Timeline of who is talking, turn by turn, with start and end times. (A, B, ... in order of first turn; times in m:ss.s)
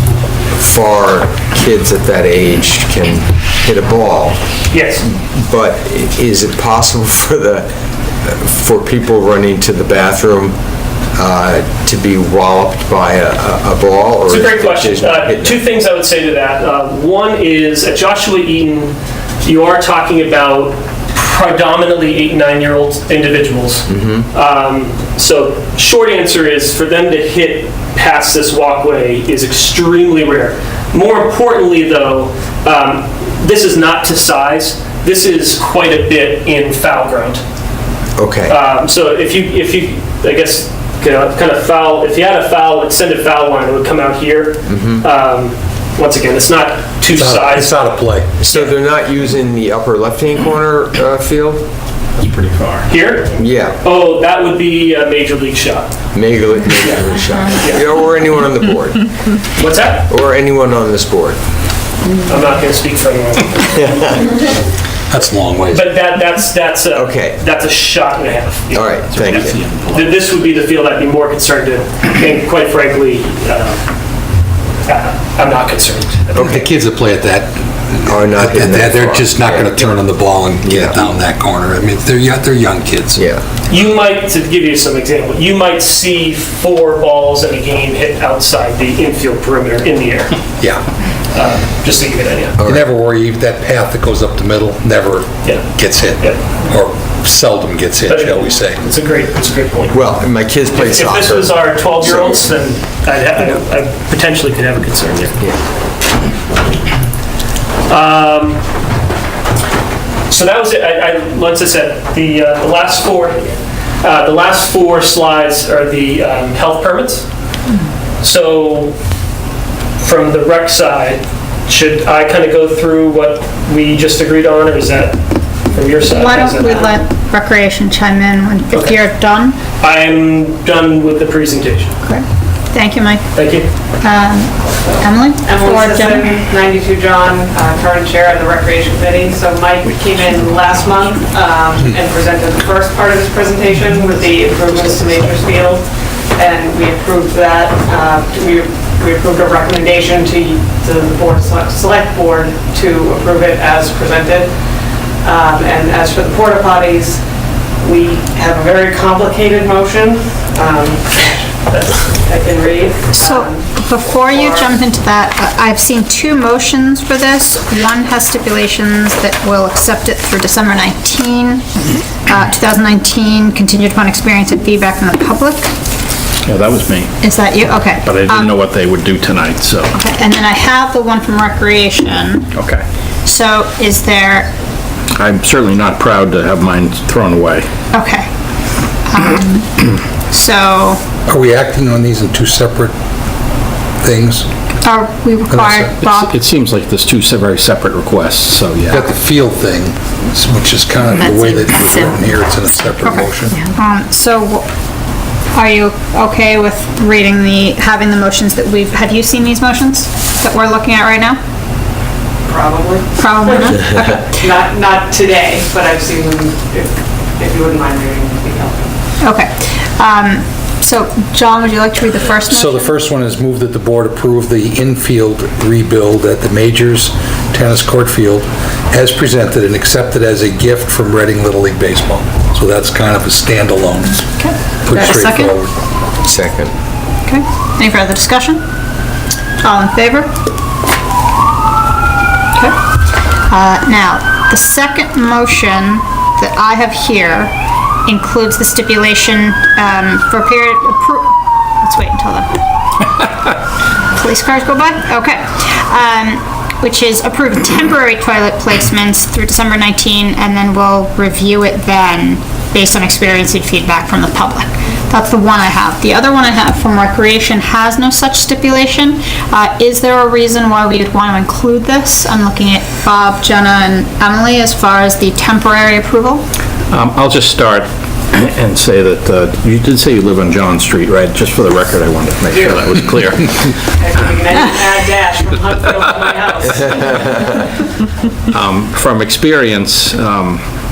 0:00.5-0:04.4 A
0:04.7-0:05.0 B
0:05.0-0:07.7 A
0:08.2-0:10.6 A
0:11.1-0:15.6 A
0:14.3-0:37.4 B
0:23.9-0:24.3 A
0:38.2-0:38.5 A
0:38.5-0:48.8 B
0:44.7-0:45.0 A
0:47.1-0:48.3 C
0:48.4-0:51.6 A
0:52.2-0:52.8 D
0:52.9-0:55.9 B
0:53.4-0:53.8 A
0:56.1-0:59.1 A
0:59.6-1:00.0 B
1:00.1-1:01.4 A
1:02.2-1:04.4 B
1:05.1-1:05.9 C
1:05.7-1:13.8 B
1:06.9-1:07.4 A
1:08.7-1:09.6 A
1:09.0-1:10.2 D
1:14.8-1:16.6 B
1:16.3-1:16.7 A
1:16.4-1:23.3 C
1:18.0-1:19.9 A
1:20.6-1:21.0 A
1:23.1-1:23.4 A
1:23.7-1:30.4 B
1:30.6-1:30.8 C
1:31.3-1:32.6 B
1:32.6-1:32.8 A
1:32.6-1:38.8 C
1:38.1-1:40.1 B
1:39.9-1:42.4 A
1:40.7-1:45.4 B
1:47.9-1:48.6 B
1:50.3-1:53.5 B
1:54.0-1:57.2 B
1:58.2-1:59.0 B
2:00.0-2:05.2 B
2:05.7-2:06.9 B
2:06.1-2:09.6 E
2:09.8-2:12.0 B
2:12.0-2:13.2 E
2:13.3-2:13.7 B
2:14.0-2:16.4 E
2:14.8-2:34.5 F
2:35.2-2:37.2 F
2:37.8-2:44.7 F
2:43.1-2:51.6 E
2:52.3-2:55.7 E
2:56.4-2:57.2 D
2:57.2-2:58.6 E
2:58.0-2:59.9 D
2:59.9-3:02.5 E
3:02.5-3:02.8 D
3:03.2-3:04.5 E
3:05.1-3:07.7 D
3:07.9-3:08.2 E
3:09.0-3:11.0 E
3:11.2-3:12.9 C
3:14.0-3:14.5 C
3:14.8-3:16.3 E
3:15.5-3:16.0 C
3:16.0-3:19.0 D
3:18.8-3:23.7 C
3:23.0-3:24.6 E
3:25.5-3:31.4 E
3:32.4-3:38.9 F
3:33.2-3:34.2 E
3:39.2-3:42.9 E
3:42.5-3:54.3 C
3:54.4-3:55.5 E
3:54.8-3:55.7 C
3:56.2-3:56.7 A
3:57.2-3:58.6 E
3:59.6-4:00.3 E
4:03.5-4:07.5 E
4:08.0-4:12.6 E
4:14.1-4:36.4 E
4:36.9-4:43.7 D
4:44.0-4:47.6 F
4:48.5-4:50.6 D